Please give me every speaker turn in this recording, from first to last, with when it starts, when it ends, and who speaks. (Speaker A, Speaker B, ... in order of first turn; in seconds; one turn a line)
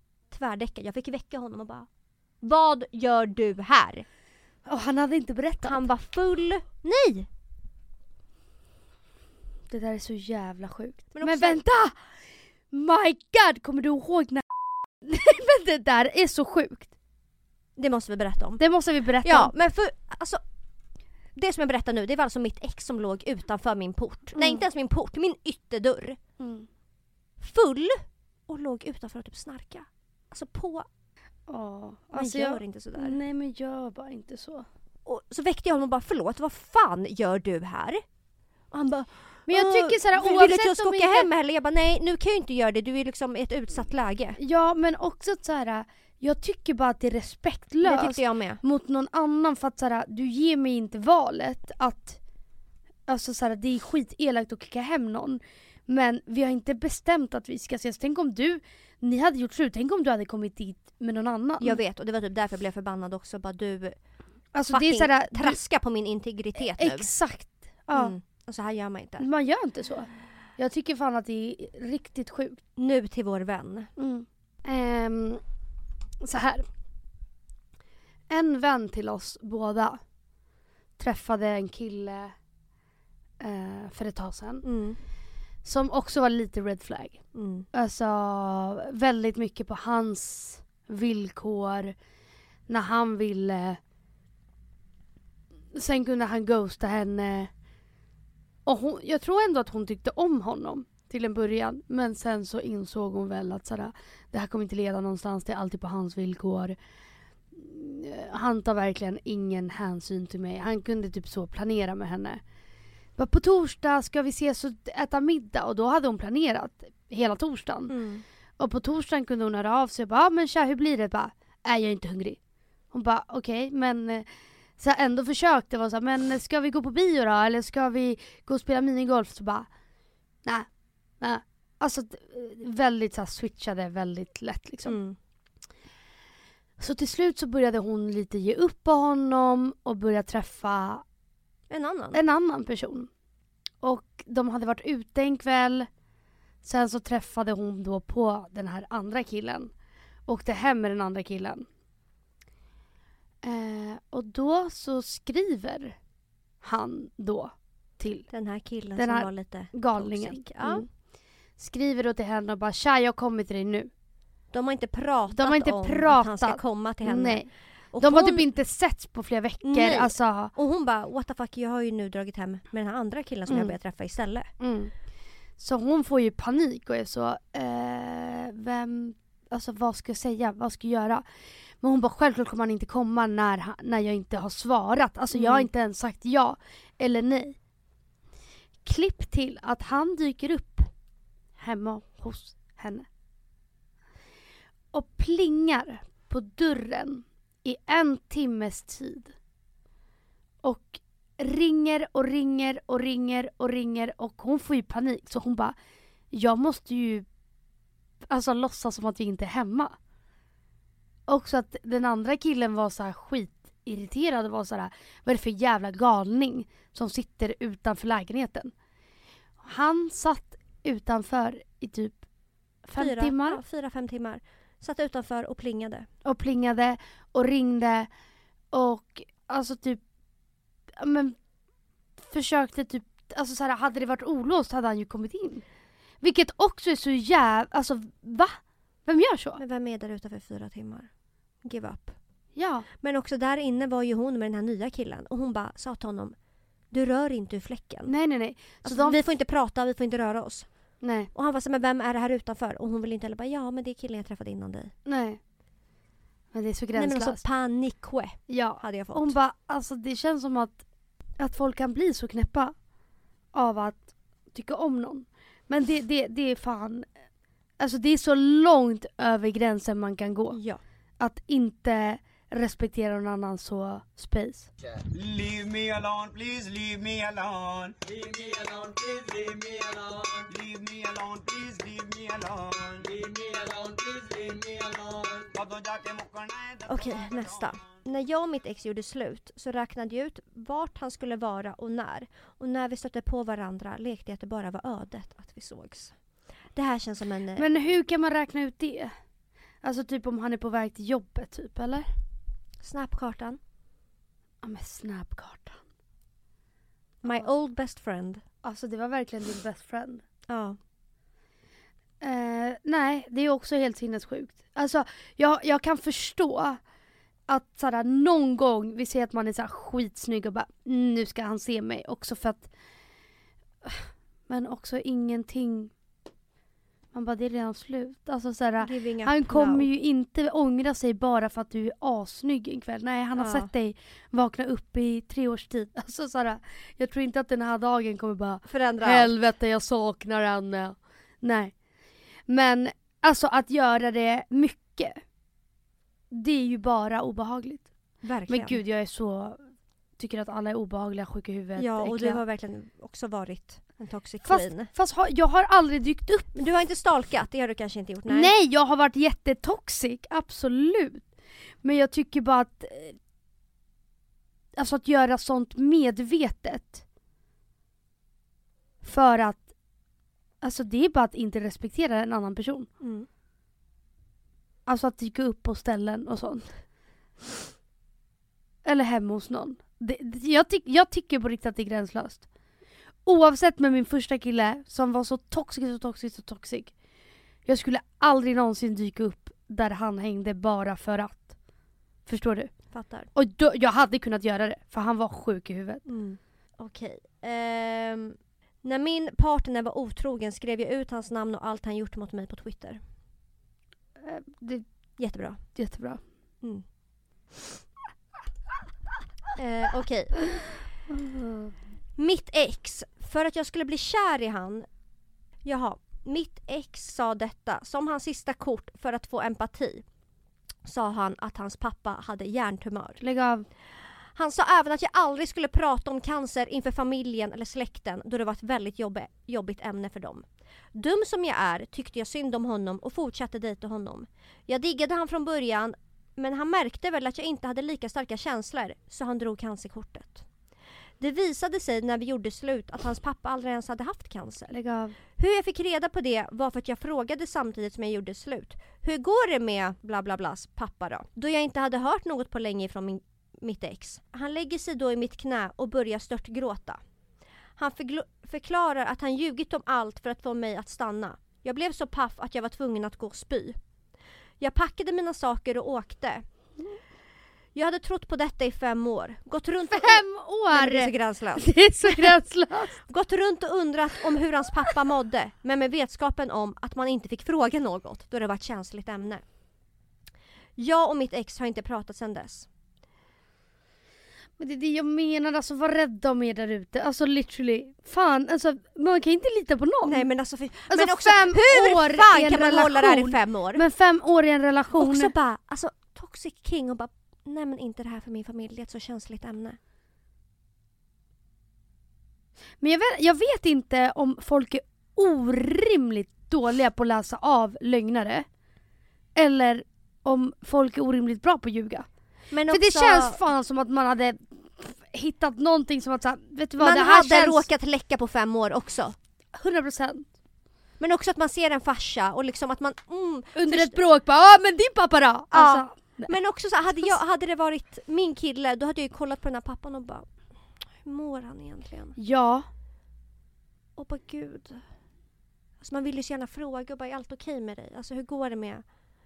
Speaker A: 0.3-1.9
Speaker A: 2.4-4.0
Speaker B: 4.7-5.8
Speaker A: 5.6-7.3
Speaker B: 9.7-12.0
Speaker A: 11.1-11.6
Speaker B: 12.7-16.9
Speaker A: 17.8-18.6
Speaker B: 18.6-19.5
Speaker A: 19.2-20.4
Speaker A: 21.4-26.2
Speaker B: 24.4-24.6
Speaker B: 26.4-26.7
Speaker A: 27.4-30.9
Speaker B: 31.5-34.7
Speaker A: 32.1-33.2
Speaker A: 35.0-38.0
Speaker A: 38.7-44.4
Speaker B: 39.5-41.3
Speaker B: 44.4-52.2
Speaker A: 47.8-48.6
Speaker B: 53.1-61.8
Speaker A: 61.6-64.0
Speaker B: 64.5-65.6
Speaker A: 64.7-67.1
Speaker B: 66.7-68.2
Speaker A: 67.9-69.3
Speaker B: 69.2-72.6
Speaker A: 72.8-73.9
Speaker B: 74.0-75.4
Speaker B: 76.2-76.7
Speaker B: 78.3-80.0
Speaker B: 81.0-82.3
Speaker B: 83.4-84.7
Speaker A: 84.6-85.0
Speaker B: 85.6-92.0
Speaker A: 87.3-87.7
Speaker B: 92.7-93.8
Speaker B: 95.8-97.5
Speaker B: 98.7-106.8
Speaker B: 107.5-112.4
Speaker B: 113.2-117.9
Speaker A: 117.9-118.2
Speaker B: 118.6-122.4
Speaker B: 122.9-124.3
Speaker B: 124.8-129.7
Speaker B: 131.2-135.0
Speaker A: 134.8-135.2
Speaker B: 136.8-141.0
Speaker A: 141.7-142.2
Speaker B: 142.1-143.1
Speaker B: 143.8-145.9
Speaker B: 146.6-149.7
Speaker B: 150.3-151.7
Speaker B: 153.4-156.0
Speaker B: 156.6-158.3
Speaker A: 158.3-160.9
Speaker B: 159.0-160.9
Speaker B: 161.6-163.9
Speaker A: 164.5-168.5
Speaker B: 165.3-170.5
Speaker A: 169.6-174.5
Speaker B: 173.5-173.8
Speaker B: 174.6-174.9
Speaker B: 175.6-181.2
Speaker B: 181.8-187.6
Speaker A: 185.3-185.7
Speaker B: 188.8-190.9
Speaker B: 191.6-193.1
Speaker B: 194.9-199.3
Speaker B: 200.6-205.8
Speaker B: 206.3-207.3
Speaker B: 208.3-209.9
Speaker B: 211.3-218.7
Speaker B: 219.6-222.2
Speaker B: 222.8-223.6
Speaker A: 223.0-226.1
Speaker B: 226.2-228.1
Speaker B: 228.7-230.0
Speaker B: 231.0-231.4
Speaker B: 232.2-235.7
Speaker B: 236.2-239.6
Speaker A: 239.6-241.1
Speaker A: 241.6-242.2
Speaker B: 242.6-242.9
Speaker A: 243.0-246.3
Speaker A: 246.9-248.1
Speaker B: 248.1-249.2
Speaker A: 248.8-250.7
Speaker B: 251.0-251.3
Speaker A: 251.3-254.9
Speaker B: 255.1-255.4
Speaker B: 256.5-257.4
Speaker A: 256.9-259.4
Speaker B: 258.5-260.8
Speaker B: 261.4-262.8
Speaker B: 263.5-267.1
Speaker B: 267.8-270.6
Speaker A: 270.5-270.8
Speaker B: 271.2-274.7
Speaker C: 275.0-287.8
Speaker A: 286.9-296.2
Speaker A: 296.7-297.7
Speaker B: 297.6-299.1
Speaker B: 299.8-302.1
Speaker A: 302.8-303.6
Speaker B: 304.6-305.8
Speaker A: 307.2-308.4
Speaker B: 308.6-310.2
Speaker A: 310.5-310.8
Speaker B: 312.2-316.8
Speaker B: 317.5-322.7
Speaker B: 323.9-325.9
Speaker B: 327.1-341.8
Speaker A: 328.8-329.9
Speaker A: 333.4-333.7
Speaker A: 338.7-339.3
Speaker B: 342.5-345.2
Speaker B: 346.3-347.9
Speaker A: 348.2-348.8
Speaker B: 348.5-352.4
Speaker A: 351.8-354.9
Speaker B: 354.4-356.5
Speaker A: 356.6-358.5
Speaker B: 358.3-361.3
Speaker B: 361.8-363.2
Speaker B: 364.8-367.0
Speaker B: 369.0-369.7
Speaker B: 370.6-372.9
Speaker A: 373.0-373.3
Speaker B: 374.9-376.8
Speaker B: 378.9-382.5
Speaker B: 383.2-386.9
Speaker B: 387.7-391.5
Speaker B: 392.3-392.7
Speaker A: 392.9-393.3
Speaker B: 393.3-396.0
Speaker A: 396.1-403.0
Speaker B: 404.2-404.9
Speaker A: 405.2-405.6
Speaker B: 405.8-406.2
Speaker A: 406.6-406.9
Speaker A: 409.6-410.6
Speaker B: 411.1-411.7
Speaker A: 412.2-414.9
Speaker A: 415.6-420.1
Speaker A: 420.8-423.2
Speaker B: 423.2-423.7
Speaker A: 423.9-440.5
Speaker A: 441.2-444.7
Speaker B: 444.7-445.2
Speaker A: 445.3-457.0
Speaker A: 457.8-463.8
Speaker A: 464.6-466.4
Speaker A: 467.8-472.3
Speaker B: 469.9-473.0
Speaker A: 473.1-479.4
Speaker A: 480.8-482.7
Speaker B: 484.6-490.3
Speaker A: 490.1-493.8
Speaker B: 490.9-495.3
Speaker A: 495.0-499.8
Speaker B: 502.8-508.5
Speaker B: 509.4-512.1
Speaker A: 512.5-513.4
Speaker B: 512.7-517.7
Speaker A: 516.8-519.2
Speaker B: 519.5-520.3
Speaker A: 521.0-524.0
Speaker B: 523.6-526.3
Speaker A: 525.5-530.3
Speaker A: 530.9-532.2
Speaker B: 532.2-532.7
Speaker A: 534.0-534.9
Speaker A: 535.8-538.8